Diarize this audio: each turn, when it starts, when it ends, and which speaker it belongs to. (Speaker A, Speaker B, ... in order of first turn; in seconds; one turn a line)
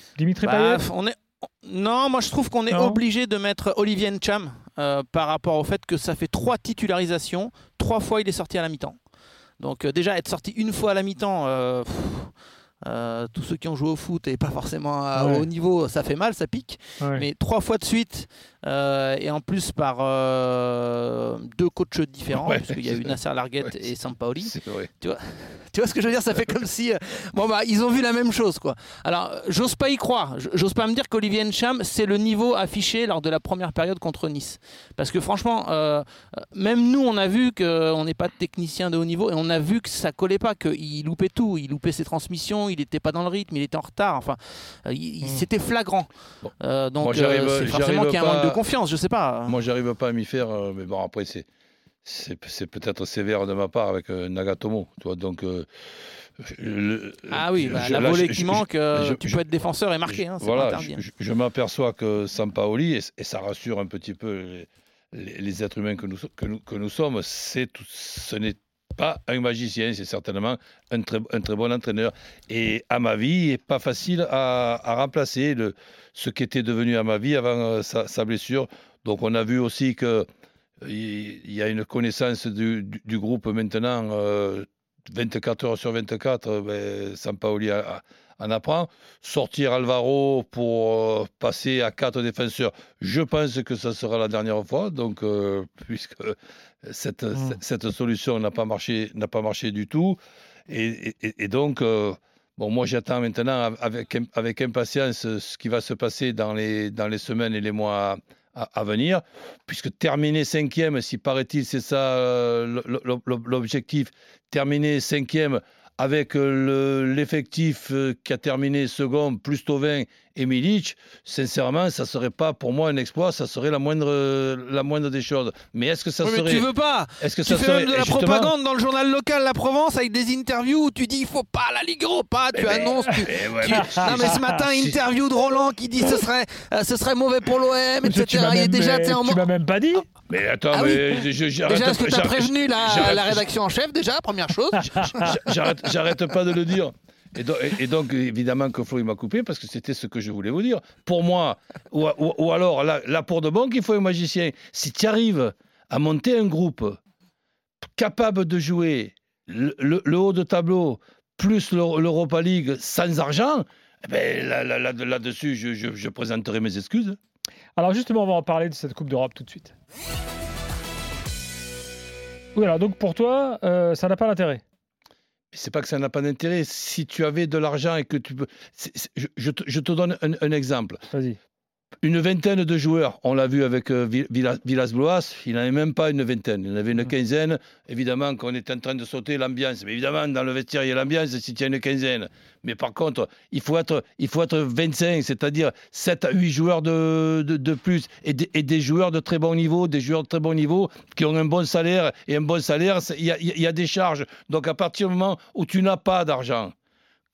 Speaker A: 0.2-0.8
Speaker B: 0.4-9.0
Speaker A: 2.7-3.0
Speaker B: 9.6-12.3
Speaker B: 12.8-46.1
Speaker A: 15.2-15.4
Speaker A: 17.0-17.2
Speaker C: 22.3-23.7
Speaker C: 24.4-24.9
Speaker C: 46.4-48.6
Speaker B: 46.6-49.6
Speaker C: 49.5-51.5
Speaker C: 52.0-55.7
Speaker C: 56.4-59.4
Speaker B: 57.3-61.0
Speaker C: 60.1-80.3
Speaker C: 80.8-100.2
Speaker C: 100.7-126.7
Speaker B: 126.2-139.4
Speaker C: 127.2-128.5
Speaker C: 132.5-135.0
Speaker A: 138.0-140.0
Speaker C: 140.3-143.4
Speaker B: 140.7-145.5
Speaker C: 145.2-157.0
Speaker C: 157.9-167.2
Speaker A: 167.8-169.7
Speaker A: 172.5-174.6
Speaker C: 175.5-181.0
Speaker A: 181.1-181.4
Speaker C: 182.0-206.7